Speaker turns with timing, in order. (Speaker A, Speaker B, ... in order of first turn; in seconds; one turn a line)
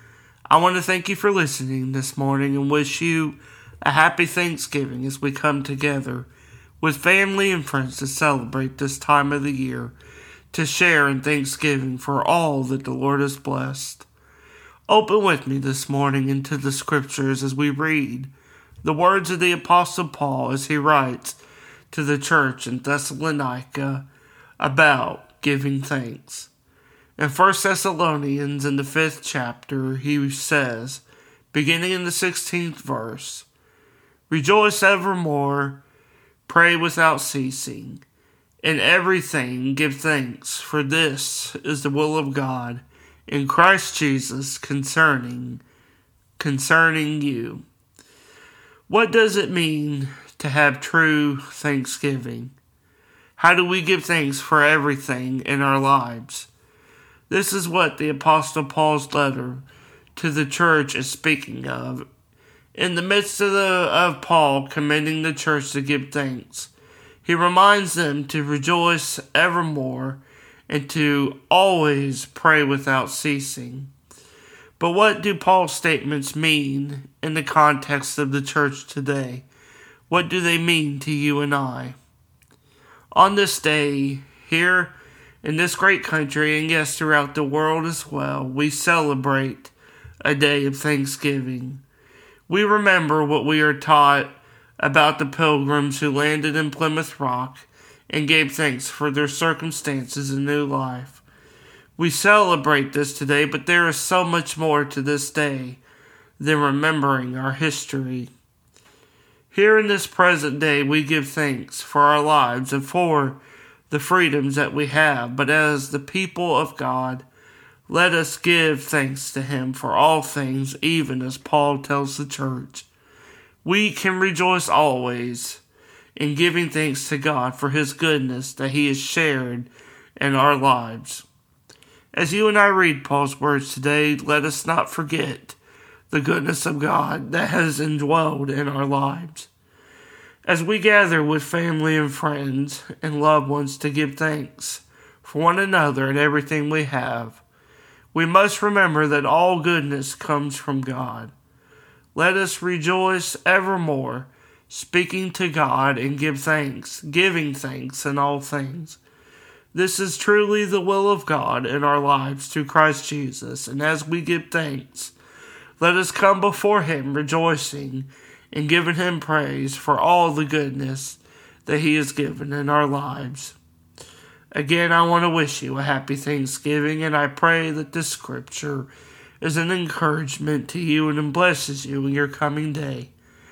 Speaker A: 0.5-6.3
Speaker A: 6.8-9.9
Speaker A: 10.5-14.1
Speaker A: 14.9-21.4
Speaker A: 21.9-24.1
Speaker A: 24.6-26.5
Speaker A: 27.2-33.5
Speaker A: 34.3-35.8
Speaker A: 36.5-38.0
Speaker A: 38.6-45.6
Speaker A: 46.4-47.7
Speaker A: 48.9-52.5
Speaker A: 53.4-56.5
Speaker A: 57.3-59.6
Speaker A: 60.2-62.1
Speaker A: 62.8-66.7
Speaker A: 67.2-73.9
Speaker A: 74.8-79.5
Speaker A: 80.1-82.0
Speaker A: 83.1-91.8
Speaker A: 92.5-101.2
Speaker A: 102.0-105.8
Speaker A: 106.4-108.3
Speaker A: 109.5-113.4
Speaker A: 113.9-117.3
Speaker A: 117.9-122.9
Speaker A: 123.6-125.6
Speaker A: 126.2-131.3
Speaker A: 132.1-135.6
Speaker A: 136.1-139.5
Speaker A: 140.5-147.4
Speaker A: 148.1-151.3
Speaker A: 152.2-159.0
Speaker A: 159.7-165.1
Speaker A: 165.8-173.6
Speaker A: 174.5-178.9
Speaker A: 179.4-183.1